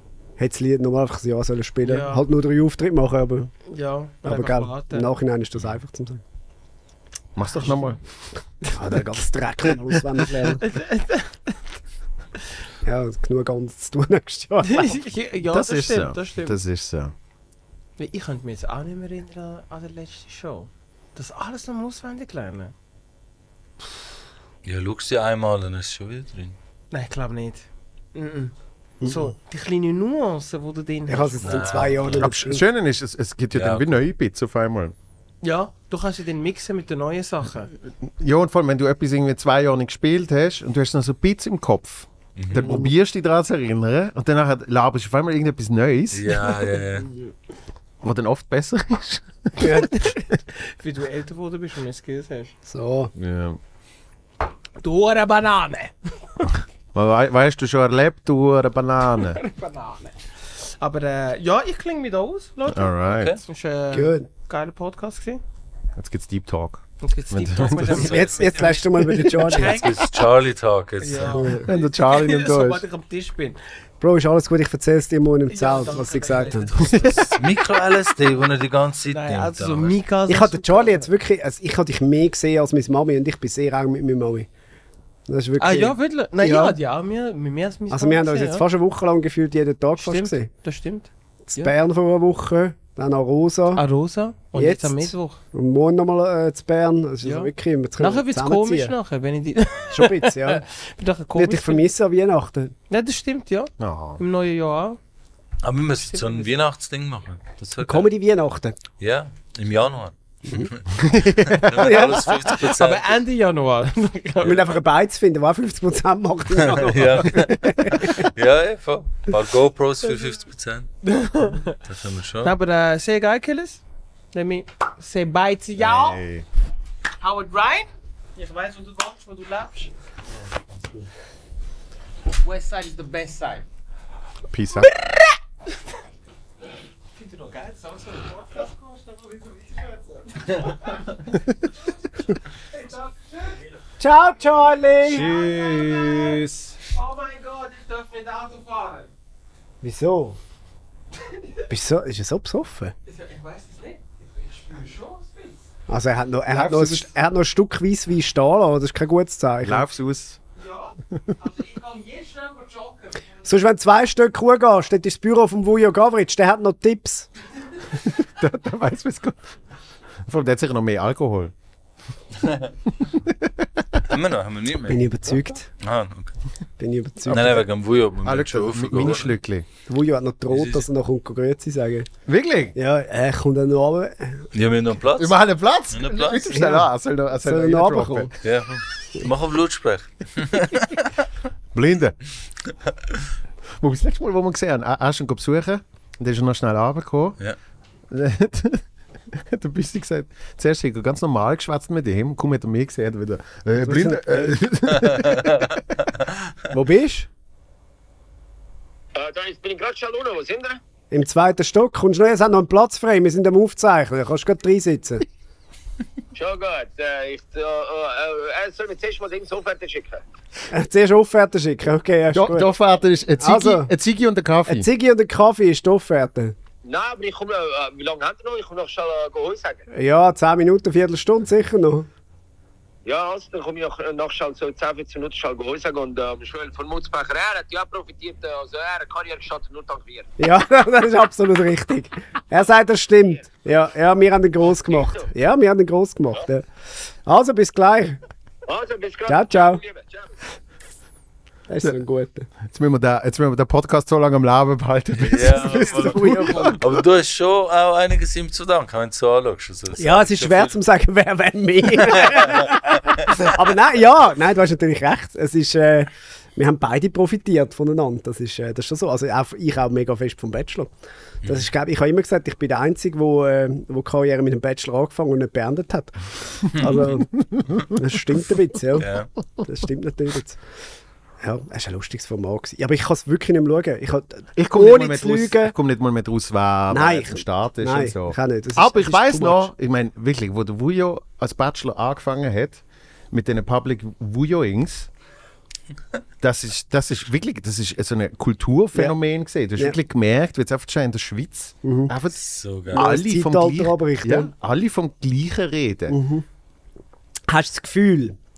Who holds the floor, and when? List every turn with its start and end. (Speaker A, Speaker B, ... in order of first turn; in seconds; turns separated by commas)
Speaker A: 0.4-3.5, Speaker B: 1.8-2.2, Speaker B: 3.7-5.1, Speaker A: 4.2-6.2, Speaker C: 7.3-8.0, Speaker A: 8.7-10.6, Speaker B: 10.5-11.4, Speaker A: 12.8-15.0, Speaker B: 14.7-16.6, Speaker C: 15.5-17.1, Speaker B: 18.0-22.7, Speaker D: 24.6-26.5, Speaker B: 26.9-31.9, Speaker A: 29.0-29.3, Speaker A: 31.1-32.6, Speaker D: 31.4-32.3, Speaker C: 32.1-34.9, Speaker D: 33.5-33.9, Speaker B: 35.4-37.7, Speaker C: 38.0-46.5, Speaker D: 42.4-42.7, Speaker A: 42.6-42.9, Speaker D: 46.1-47.1, Speaker C: 48.0-49.6, Speaker A: 49.6-50.0, Speaker B: 50.0-52.5, Speaker A: 52.6-53.1, Speaker C: 53.1-53.6, Speaker B: 54.8-56.5, Speaker C: 56.9-59.4, Speaker B: 59.2-60.1, Speaker B: 60.8-62.9, Speaker C: 62.7-63.4, Speaker D: 63.1-63.4, Speaker B: 63.5-65.4, Speaker A: 63.9-64.3, Speaker C: 66.0-68.3, Speaker B: 67.0-70.2, Speaker D: 67.8-68.2, Speaker A: 67.9-69.8, Speaker D: 69.8-71.5, Speaker B: 71.0-73.6, Speaker A: 71.3-71.7, Speaker C: 71.7-72.8, Speaker A: 74.0-77.1, Speaker B: 75.5-77.4, Speaker C: 76.8-77.2, Speaker D: 77.3-79.9, Speaker B: 79.1-81.1, Speaker A: 80.3-84.5, Speaker A: 85.3-86.8, Speaker B: 85.6-88.6, Speaker A: 87.9-90.5, Speaker B: 90.0-91.7, Speaker A: 91.5-93.8, Speaker B: 93.7-95.4, Speaker A: 94.5-98.9, Speaker B: 97.2-101.8, Speaker A: 99.9-100.6, Speaker A: 101.3-102.7, Speaker B: 102.9-105.0, Speaker C: 103.8-104.2, Speaker D: 105.6-108.1, Speaker B: 106.0-106.5, Speaker A: 107.8-108.8, Speaker D: 109.0-113.1, Speaker C: 111.0-111.8, Speaker A: 111.7-112.4, Speaker B: 112.6-114.7, Speaker A: 114.4-118.2, Speaker D: 116.6-120.9, Speaker B: 121.0-121.8, Speaker D: 121.8-122.5, Speaker B: 122.4-123.8, Speaker B: 124.3-126.2, Speaker C: 125.8-126.4, Speaker B: 127.2-129.9, Speaker B: 132.3-133.6, Speaker C: 134.5-134.9, Speaker B: 137.1-141.1, Speaker B: 142.7-143.6, Speaker A: 144.0-145.3, Speaker C: 145.0-146.7, Speaker B: 145.1-146.4, Speaker B: 146.9-149.1, Speaker A: 149.8-150.4, Speaker A: 151.7-152.9, Speaker B: 153.1-155.6, Speaker A: 155.9-159.9, Speaker C: 156.5-157.1, Speaker C: 159.6-160.4, Speaker B: 160.6-163.5, Speaker A: 163.4-167.3, Speaker C: 168.1-169.4, Speaker C: 170.3-171.5, Speaker D: 172.4-172.7, Speaker D: 174.0-175.1, Speaker A: 174.9-175.7, Speaker D: 175.8-176.3, Speaker A: 176.8-177.6, Speaker D: 177.3-179.3, Speaker C: 177.3-177.6, Speaker C: 178.2-179.7, Speaker A: 179.9-182.1, Speaker D: 180.5-180.8, Speaker C: 182.3-182.8, Speaker A: 182.7-184.4, Speaker D: 184.5-185.4, Speaker C: 185.2-188.3, Speaker D: 185.9-186.5, Speaker A: 186.5-186.9, Speaker A: 187.4-188.3, Speaker D: 188.4-191.1, Speaker C: 191.7-192.2, Speaker C: 193.8-197.4, Speaker C: 198.1-205.7, Speaker A: 203.8-204.6, Speaker D: 204.9-205.7, Speaker A: 206.7-207.3, Speaker E: 209.1-210.8, Speaker A: 211.1-215.2, Speaker E: 216.3-220.2, Speaker A: 220.7-222.7, Speaker C: 222.3-224.8, Speaker A: 223.4-223.9, Speaker A: 224.7-226.5, Speaker E: 226.8-229.8, Speaker A: 229.9-232.1, Speaker E: 233.1-240.3, Speaker A: 240.4-246.7, Speaker E: 244.9-245.2, Speaker A: 247.2-248.2, Speaker E: 248.7-250.3, Speaker A: 249.2-249.8, Speaker A: 251.7-252.5, Speaker C: 252.6-256.8, Speaker D: 255.2-260.7, Speaker A: 255.6-256.9, Speaker A: 260.0-270.9, Speaker D: 262.0-263.4, Speaker D: 271.4-271.7, Speaker A: 271.4-279.1, Speaker D: 276.7-277.2, Speaker D: 279.0-279.3, Speaker A: 279.6-280.6, Speaker A: 281.4-285.7, Speaker C: 284.6-295.1, Speaker A: 286.9-289.7, Speaker C: 296.4-302.4, Speaker A: 301.8-302.1, Speaker D: 302.3-303.0, Speaker C: 302.9-306.2, Speaker A: 302.9-304.5, Speaker A: 306.1-306.4, Speaker A: 307.5-308.4